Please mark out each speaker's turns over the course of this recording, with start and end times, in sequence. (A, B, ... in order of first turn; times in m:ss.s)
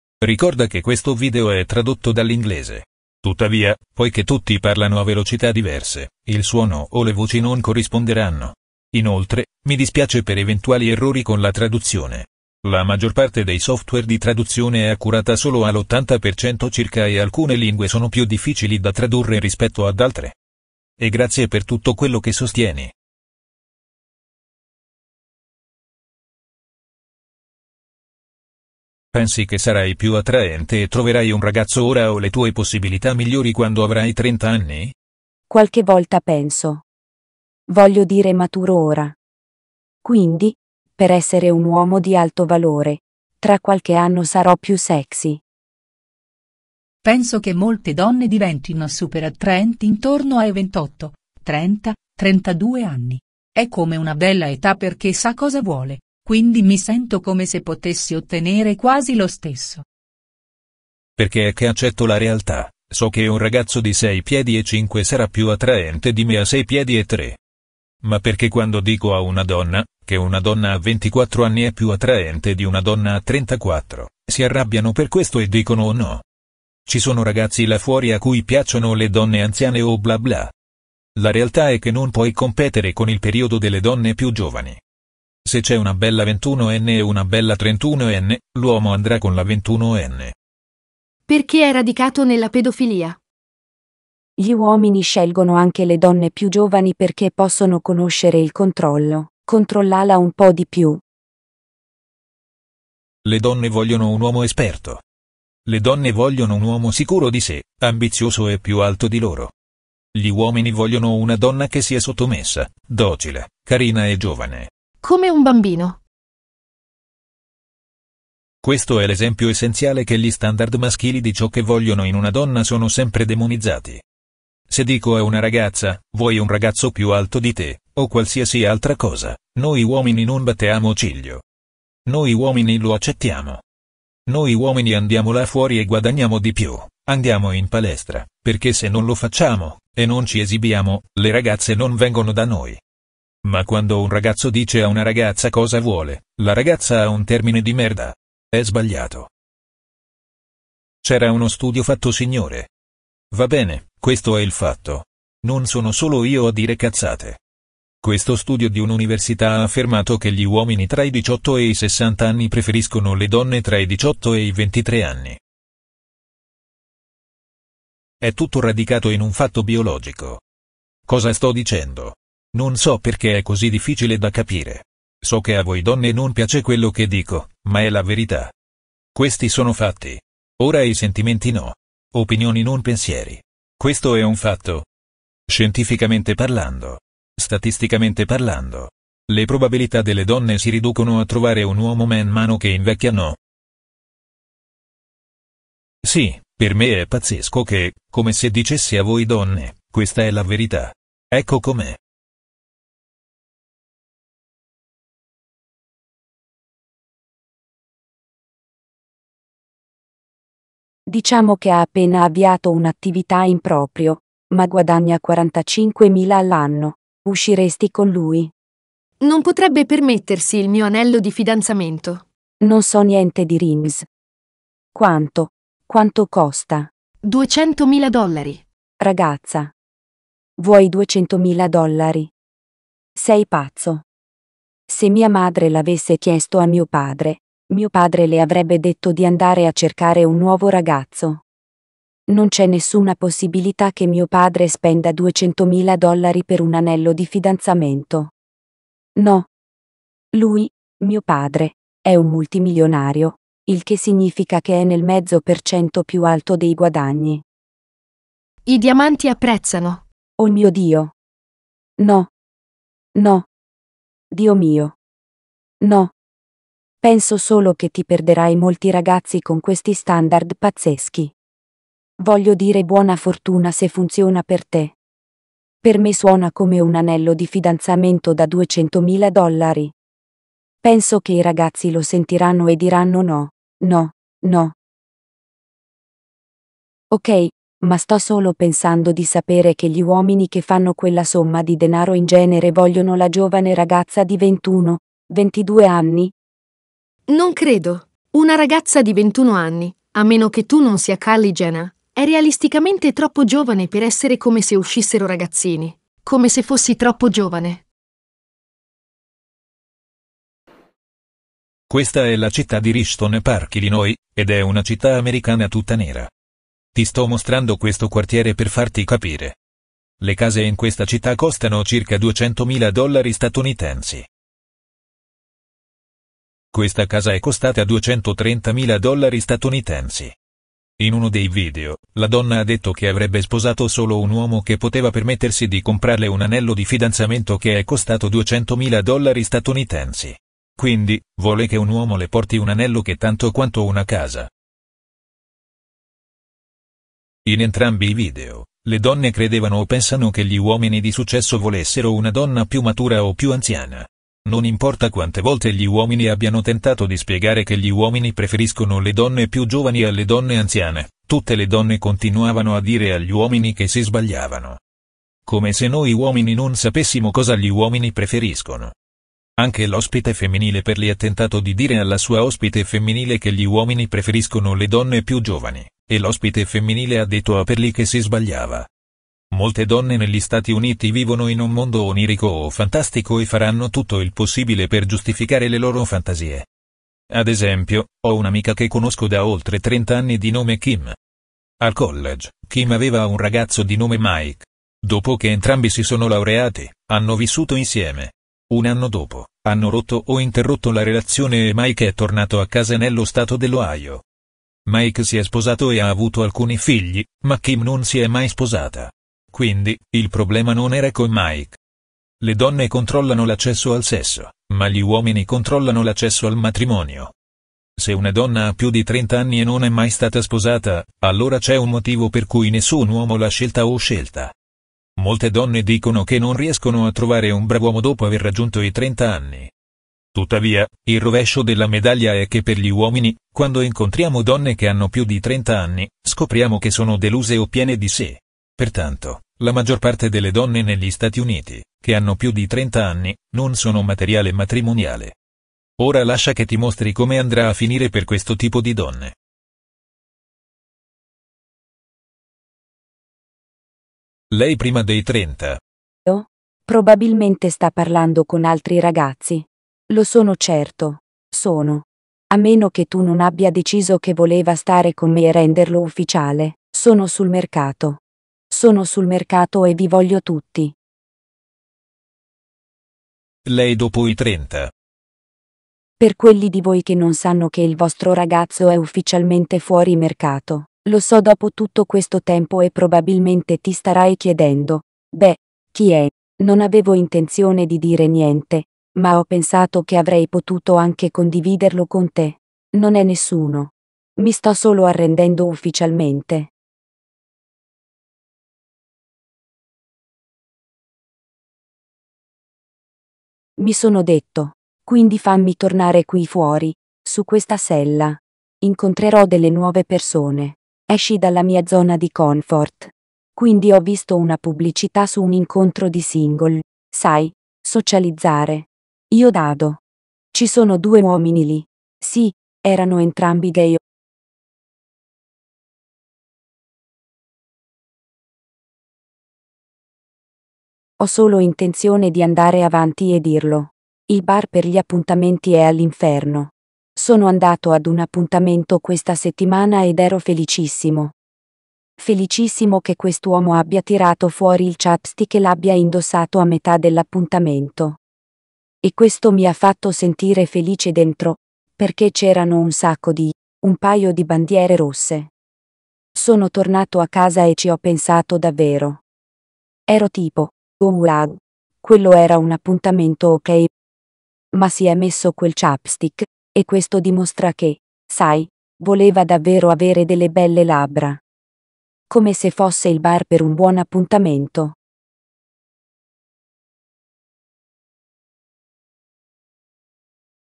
0:00.2-0:20.4 A
0:21.0-0:22.9 A
0:29.1-0:34.9 A
0:35.5-0:36.8 B
0:37.7-0:39.1 B
0:40.0-0:45.4 B
0:47.0-0:59.8 C
1:01.2-1:07.4 A
1:08.0-1:16.2 A
1:16.8-1:20.5 A
1:21.2-1:24.8 A
1:25.4-1:30.3 A
1:31.3-1:33.2 D
1:34.4-1:41.0 B
1:43.2-1:45.0 A
1:45.6-1:49.5 A
1:50.1-1:54.7 A
1:55.0-1:56.0 D
1:58.6-2:04.0 A
2:04.7-2:11.4 A
2:12.0-2:13.6 A
2:14.3-2:22.8 A
2:23.4-2:29.3 A
2:31.0-2:32.7 A
2:33.3-2:37.4 A
2:38.0-2:45.4 A
2:48.2-2:50.4 A
2:51.1-2:58.5 A
2:59.1-3:04.9 A
3:05.5-3:13.4 A
3:16.0-3:22.0 A
3:31.1-3:38.5 B
3:39.2-3:42.2 D
3:42.6-3:44.1 B
3:44.9-3:46.9 B
3:47.2-3:48.6 D
3:49.0-3:49.7 B
3:50.6-3:52.3 B
3:53.1-3:54.0 B
3:54.9-4:01.4 B
4:02.3-4:08.3 B
4:09.2-4:09.5 B
4:10.3-4:17.4 B
4:18.6-4:20.0 D
4:20.4-4:21.1 B
4:22.0-4:22.3 B
4:23.1-4:23.5 B
4:24.3-4:25.0 B
4:25.8-4:26.1 B
4:27.0-4:31.3 B
4:32.2-4:35.0 B
4:35.8-4:39.9 B
4:40.8-4:44.7 B
4:47.1-4:56.3 B
4:57.3-5:07.8 D
5:11.9-5:16.3 A
5:16.9-5:19.6 A
5:20.2-5:24.3 A
5:26.7-5:30.3 A
5:31.0-5:44.5 A
5:47.4-6:04.8 A
6:05.4-6:08.9 A
6:09.6-6:18.9 A
6:19.5-6:26.7 A
6:27.3-6:31.2 A
6:31.8-6:44.2 A
6:44.8-6:51.8 A
6:52.4-6:57.3 A
6:58.0-7:04.5 A
7:05.2-7:09.7 A
7:10.3-7:25.4 A
7:26.0-7:29.4 A
7:34.5-7:35.8 A
7:36.2-7:50.9 B
7:53.6-7:54.9 A
7:56.2-8:16.7 B
8:23.8-8:40.0 B
8:40.5-8:44.0 B
8:51.2-9:01.3 B
9:02.2-9:08.2 B
9:09.0-9:15.5 B
9:16.3-9:19.2 B
9:20.1-9:23.9 B
9:24.7-9:31.4 B
9:32.3-9:35.0 B